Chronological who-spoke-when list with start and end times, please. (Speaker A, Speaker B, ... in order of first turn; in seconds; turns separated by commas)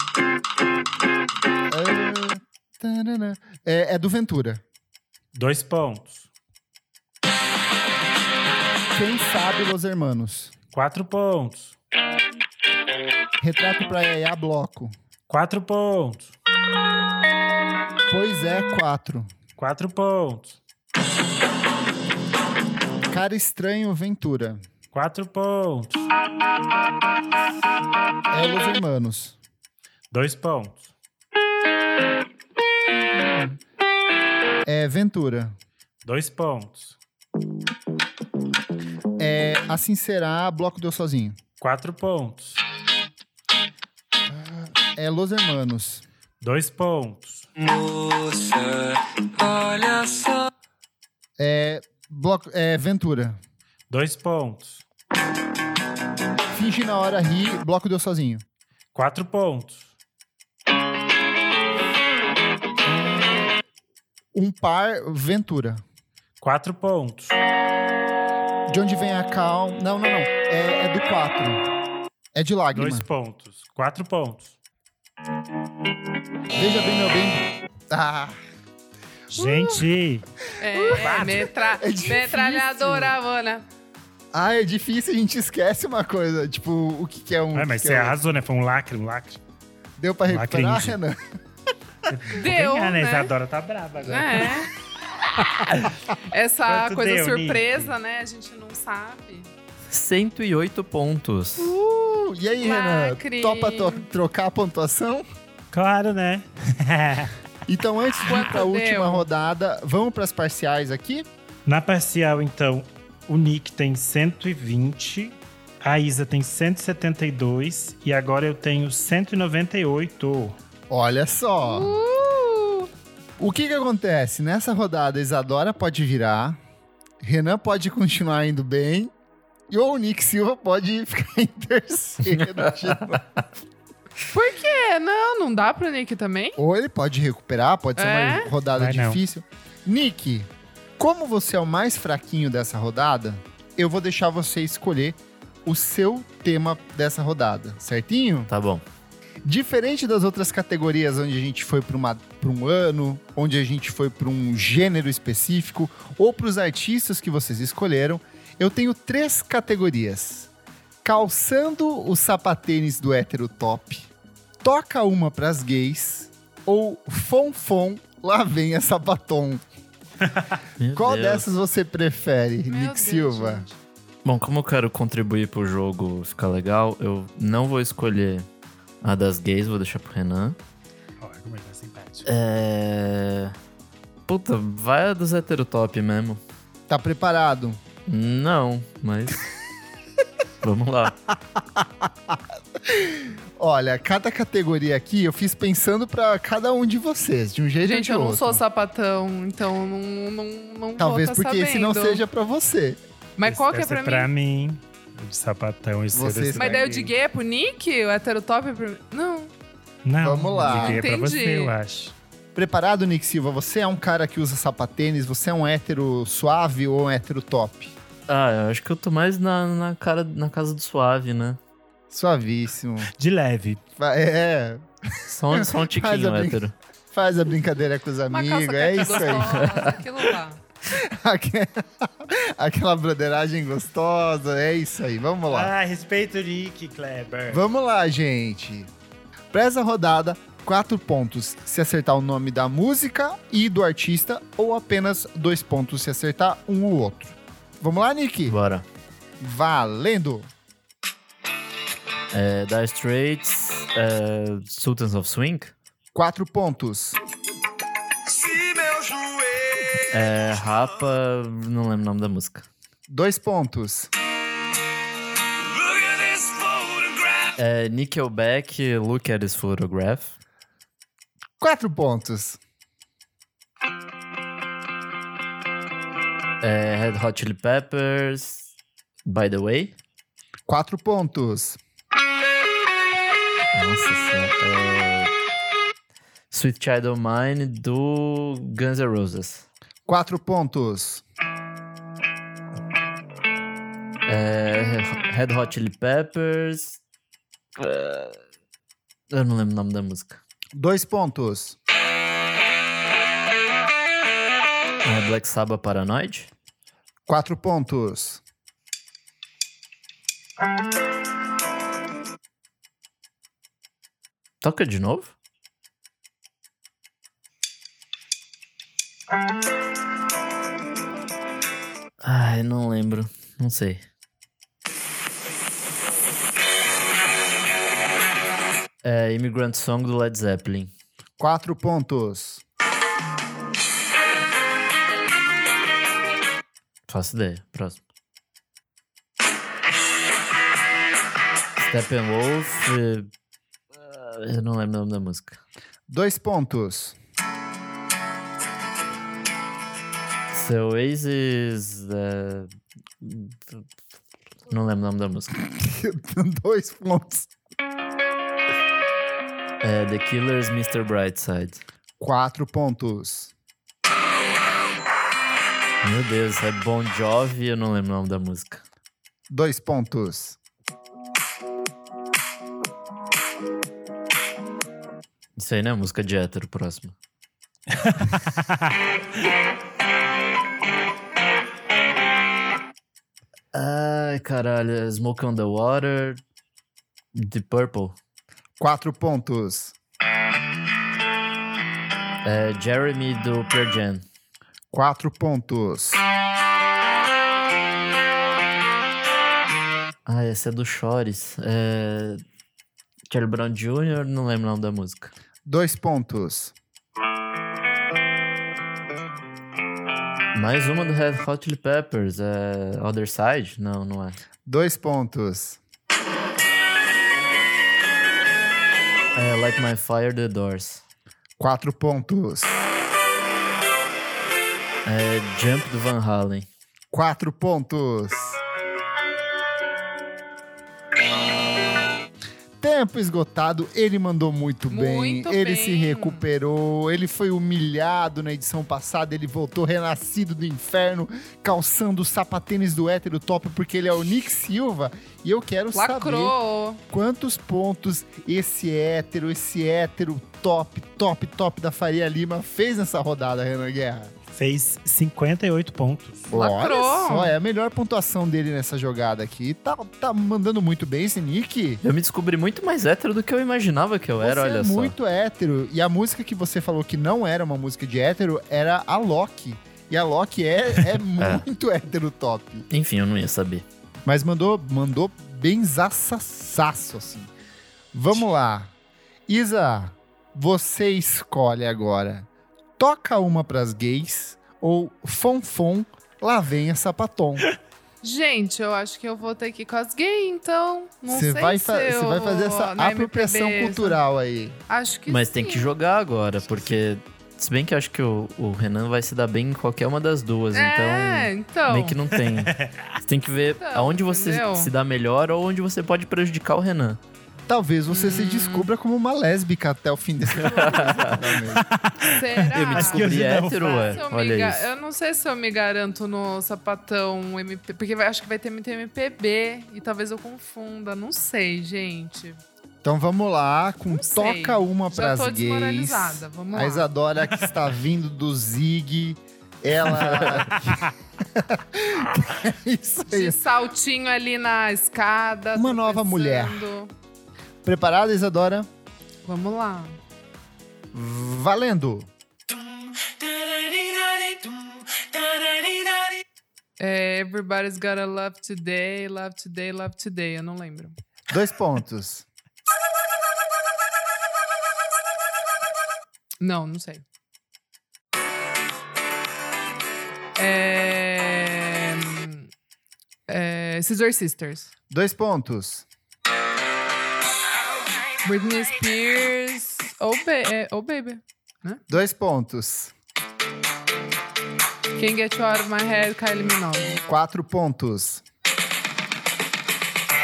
Speaker A: 1.7-4.6, Speaker B: 5.3-6.3, Speaker A: 8.9-10.5, Speaker B: 10.7-11.7, Speaker A: 13.4-14.9, Speaker B: 15.3-16.3, Speaker A: 18.1-19.3, Speaker B: 19.6-20.6, Speaker A: 23.1-24.6, Speaker B: 24.9-26.1, Speaker A: 28.3-29.4, Speaker B: 30.1-30.9, Speaker A: 33.1-33.6, Speaker A: 34.6-35.6, Speaker B: 36.0-37.0, Speaker A: 39.2-41.4, Speaker B: 41.6-42.6, Speaker A: 44.3-46.0, Speaker B: 46.4-47.5, Speaker C: 47.6-48.8, Speaker C: 49.4-50.4, Speaker A: 51.4-53.4, Speaker B: 53.9-54.8, Speaker A: 56.5-58.4, Speaker B: 58.9-59.9, Speaker A: 62.8-63.5, Speaker A: 64.3-65.8, Speaker B: 66.4-67.3, Speaker A: 68.7-71.7, Speaker A: 72.3-73.0, Speaker B: 72.7-74.5, Speaker A: 76.5-78.4, Speaker A: 79.3-79.8, Speaker B: 79.3-80.2, Speaker D: 80.6-83.6, Speaker A: 80.7-83.2, Speaker B: 81.0-81.5, Speaker A: 84.3-88.2, Speaker B: 87.5-89.4, Speaker A: 90.0-91.2, Speaker B: 90.3-91.0, Speaker B: 92.1-94.5, Speaker D: 92.3-93.3, Speaker D: 94.0-94.7, Speaker B: 95.6-95.9, Speaker D: 96.3-99.5, Speaker B: 96.7-97.9, Speaker E: 99.9-101.7, Speaker A: 101.6-105.2, Speaker D: 102.6-104.0, Speaker B: 105.7-107.3, Speaker A: 107.7-111.3, Speaker D: 108.2-109.3, Speaker B: 111.7-120.6, Speaker A: 120.9-122.0, Speaker D: 121.6-122.9, Speaker A: 123.4-126.6, Speaker A: 127.2-129.1, Speaker A: 129.7-133.4, Speaker D: 134.3-136.6, Speaker A: 136.6-148.5, Speaker D: 138.0-138.5, Speaker B: 138.8-139.2, Speaker E: 148.5-148.8, Speaker A: 149.4-160.5, Speaker A: 161.0-164.1, Speaker A: 164.6-169.6, Speaker E: 170.8-171.5, Speaker A: 170.9-173.6, Speaker D: 172.7-173.8, Speaker E: 174.2-178.5, Speaker E: 179.0-180.6, Speaker B: 181.2-182.2, Speaker E: 182.2-183.6, Speaker E: 184.2-186.4, Speaker A: 186.9-187.8, Speaker E: 188.1-189.5, Speaker E: 190.6-191.2, Speaker A: 191.6-198.6, Speaker D: 197.8-202.2, Speaker A: 201.0-203.0, Speaker D: 203.4-204.3, Speaker B: 203.4-207.1, Speaker A: 206.1-206.8, Speaker D: 206.6-209.5, Speaker B: 210.0-212.1, Speaker A: 210.2-211.0, Speaker D: 210.7-211.7, Speaker A: 212.5-217.9, Speaker E: 218.3-221.6, Speaker A: 222.1-223.1, Speaker B: 223.2-223.8, Speaker A: 224.0-229.9, Speaker E: 225.3-226.7, Speaker D: 228.3-230.6, Speaker E: 229.3-229.9, Speaker A: 230.9-235.7, Speaker B: 235.5-237.6, Speaker A: 237.5-238.9, Speaker A: 239.5-248.6, Speaker E: 248.5-248.8, Speaker A: 249.4-250.5, Speaker E: 252.3-255.7, Speaker A: 256.1-257.2, Speaker C: 258.3-260.0, Speaker E: 260.1-262.6, Speaker A: 263.1-264.1, Speaker C: 265.7-267.6, Speaker E: 267.6-270.3, Speaker A: 271.6-272.6, Speaker E: 276.6-278.7, Speaker E: 279.2-279.9, Speaker A: 280.7-281.8, Speaker E: 283.7-285.3, Speaker E: 286.5-289.6, Speaker A: 290.1-291.2, Speaker E: 294.2-297.0, Speaker E: 297.8-298.4, Speaker E: 299.3-300.4, Speaker A: 300.7-301.8, Speaker E: 305.0-306.5, Speaker A: 307.3-308.4, Speaker E: 314.6-315.3, Speaker E: 322.2-324.0, Speaker E: 329.0-330.9, Speaker A: 331.4-332.6, Speaker E: 337.1-338.0, Speaker E: 341.8-343.3, Speaker E: 344.0-345.6, Speaker A: 346.1-347.2, Speaker E: 350.5-353.8, Speaker E: 354.7-355.5, Speaker A: 355.6-357.5, Speaker E: 359.8-361.8, Speaker A: 362.2-363.5, Speaker E: 366.0-368.8, Speaker A: 369.5-370.6, Speaker E: 375.6-377.1, Speaker B: 377.9-378.3, Speaker E: 383.7-386.4, Speaker E: 387.3-388.1, Speaker A: 388.8-389.9, Speaker E: 392.4-394.2, Speaker A: 394.9-396.2, Speaker E: 400.2-402.4, Speaker E: 403.3-405.3, Speaker A: 405.6-406.7, Speaker E: 410.5-414.4, Speaker A: 414.6-415.8, Speaker E: 419.3-421.0, Speaker A: 421.6-422.7, Speaker E: 425.0-426.7, Speaker A: 427.1-428.6, Speaker A: 432.8-446.5, Speaker D: 434.9-436.4, Speaker D: 445.9-447.0, Speaker A: 447.1-454.3, Speaker B: 454.5-456.4, Speaker A: 456.5-462.0, Speaker D: 456.5-457.5, Speaker E: 462.0-465.1, Speaker A: 464.4-472.9, Speaker E: 471.4-471.6, Speaker E: 472.9-473.8, Speaker A: 474.2-477.5, Speaker A: 478.1-478.9, Speaker A: 479.5-487.7, Speaker D: 488.2-494.2, Speaker A: 491.3-494.8, Speaker D: 494.9-495.9, Speaker E: 495.3-507.2, Speaker D: 500.7-502.2, Speaker B: 502.6-502.9, Speaker D: 503.8-504.9, Speaker A: 507.7-511.9, Speaker D: 508.1-508.9, Speaker E: 510.5-511.6, Speaker B: 511.9-514.2, Speaker D: 512.3-522.6, Speaker E: 512.9-514.9, Speaker A: 523.0-533.6, Speaker D: 524.1-527.1, Speaker D: 533.2-537.1, Speaker A: 535.7-536.8, Speaker A: 537.8-538.9, Speaker D: 539.4-540.2, Speaker A: 541.1-542.3, Speaker C: 543.2-544.7, Speaker C: 545.4-546.2, Speaker D: 547.0-551.1, Speaker A: 551.5-552.5, Speaker D: 556.6-557.2, Speaker D: 560.5-562.7, Speaker D: 563.5-564.9, Speaker A: 565.1-566.0, Speaker D: 568.4-572.0, Speaker A: 572.1-573.1, Speaker D: 575.1-577.1, Speaker A: 577.3-578.4